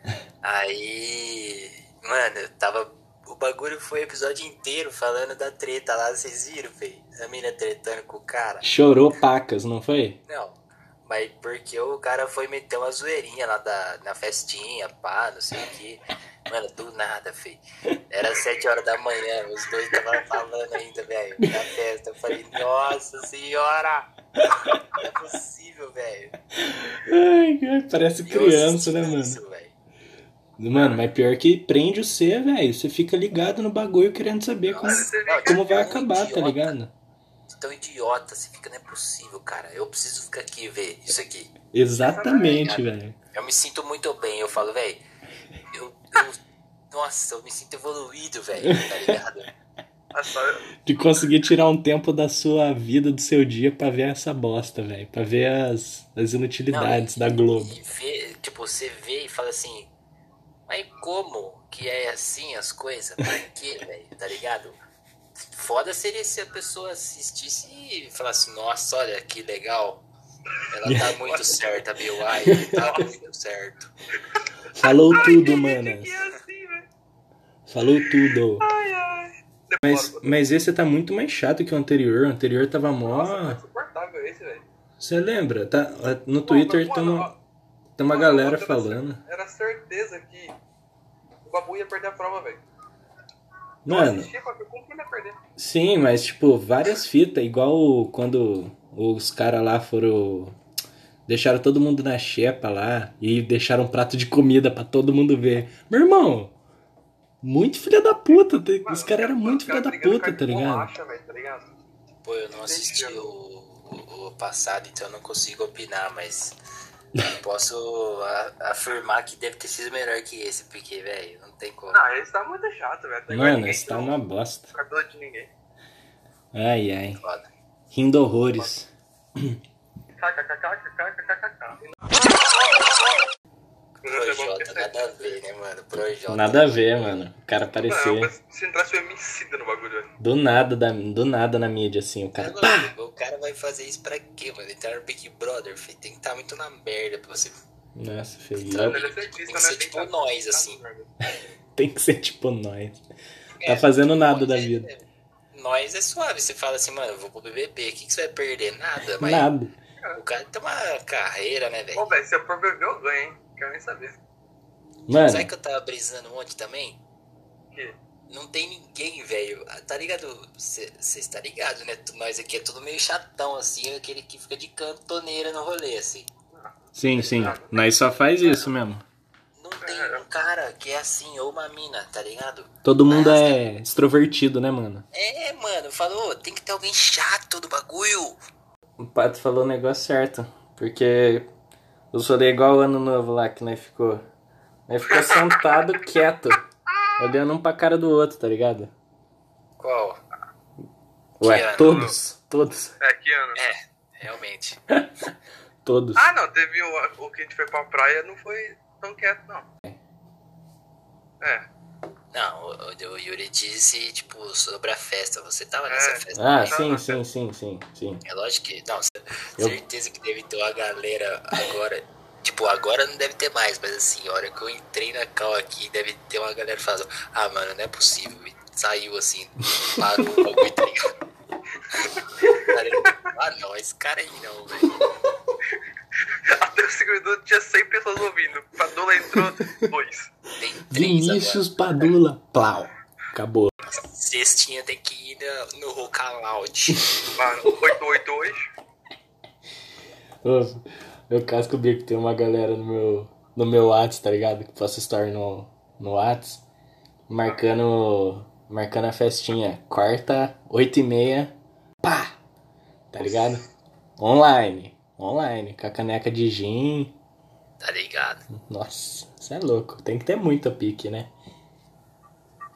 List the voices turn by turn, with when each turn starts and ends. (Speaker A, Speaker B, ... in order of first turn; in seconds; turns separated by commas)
Speaker A: 0.4-8.7, Speaker B: 8.6-10.2, Speaker A: 10.3-24.1, Speaker B: 21.4-21.7, Speaker A: 24.8-26.3, Speaker B: 26.6-29.4, Speaker A: 28.2-29.7, Speaker B: 30.6-36.9, Speaker A: 34.7-36.7, Speaker C: 34.8-35.9, Speaker A: 37.6-41.5, Speaker B: 41.7-43.2, Speaker C: 42.0-42.8, Speaker A: 42.5-42.8, Speaker A: 43.3-45.0, Speaker A: 45.7-46.4, Speaker A: 46.9-49.5, Speaker B: 48.6-49.2, Speaker C: 50.1-50.6, Speaker B: 50.9-57.8, Speaker A: 56.7-59.9, Speaker A: 60.7-64.8, Speaker A: 65.4-70.0, Speaker A: 70.7-73.9, Speaker B: 70.8-71.2, Speaker C: 71.0-71.6, Speaker B: 72.5-72.8, Speaker C: 72.6-73.1, Speaker B: 74.7-76.2, Speaker C: 74.8-76.9, Speaker B: 77.7-78.7, Speaker C: 78.6-80.4, Speaker B: 79.8-83.6, Speaker C: 83.0-84.6, Speaker B: 85.0-87.3, Speaker C: 86.5-87.4, Speaker B: 88.0-89.2, Speaker C: 88.1-90.6, Speaker C: 91.5-92.6, Speaker B: 93.8-94.3, Speaker C: 93.9-95.4, Speaker B: 95.6-100.6, Speaker B: 101.3-106.5, Speaker B: 107.4-110.9, Speaker C: 108.3-111.7, Speaker A: 112.2-116.6, Speaker C: 112.7-113.2, Speaker A: 117.2-122.0, Speaker C: 121.9-124.1, Speaker B: 123.3-124.7, Speaker C: 124.7-125.5, Speaker B: 126.5-127.2, Speaker A: 127.2-127.5, Speaker B: 127.9-129.6, Speaker C: 130.2-132.0, Speaker C: 134.0-135.0, Speaker A: 134.1-136.8, Speaker B: 136.3-138.3, Speaker C: 137.8-140.1, Speaker B: 140.2-142.9, Speaker A: 142.4-147.6, Speaker B: 147.9-149.0, Speaker A: 148.6-150.8, Speaker C: 148.7-151.1, Speaker B: 151.3-153.0, Speaker A: 153.6-159.5, Speaker B: 153.7-154.9, Speaker B: 159.2-159.7, Speaker A: 160.2-162.1, Speaker C: 161.9-164.2, Speaker B: 165.1-165.5, Speaker A: 165.2-167.0, Speaker A: 168.3-176.3, Speaker B: 177.0-179.0, Speaker A: 177.1-177.6, Speaker C: 177.2-177.7, Speaker A: 178.4-178.7, Speaker A: 179.6-183.6, Speaker C: 179.8-180.2, Speaker B: 182.8-185.1, Speaker A: 185.1-188.4, Speaker B: 189.0-191.5, Speaker B: 192.1-194.2, Speaker B: 194.9-196.6, Speaker C: 195.1-195.9, Speaker C: 196.9-197.2, Speaker B: 197.2-198.9, Speaker A: 199.8-200.2, Speaker B: 201.4-202.9, Speaker A: 201.4-202.1, Speaker C: 201.8-202.2, Speaker C: 203.0-203.6, Speaker A: 203.6-204.8, Speaker B: 205.8-206.3, Speaker C: 206.2-209.7, Speaker A: 212.3-216.8, Speaker C: 215.9-217.2, Speaker B: 216.3-218.2, Speaker A: 218.2-231.1, Speaker B: 230.0-230.6, Speaker A: 232.0-235.0, Speaker C: 232.2-233.1, Speaker C: 236.3-240.3, Speaker B: 239.3-239.9, Speaker A: 240.6-241.7, Speaker B: 240.9-243.7, Speaker A: 243.9-247.0, Speaker B: 246.9-247.2, Speaker C: 247.3-248.7, Speaker B: 250.4-256.6, Speaker B: 257.3-262.4, Speaker B: 263.1-263.6, Speaker B: 264.2-267.1, Speaker A: 267.8-268.4, Speaker B: 268.5-271.3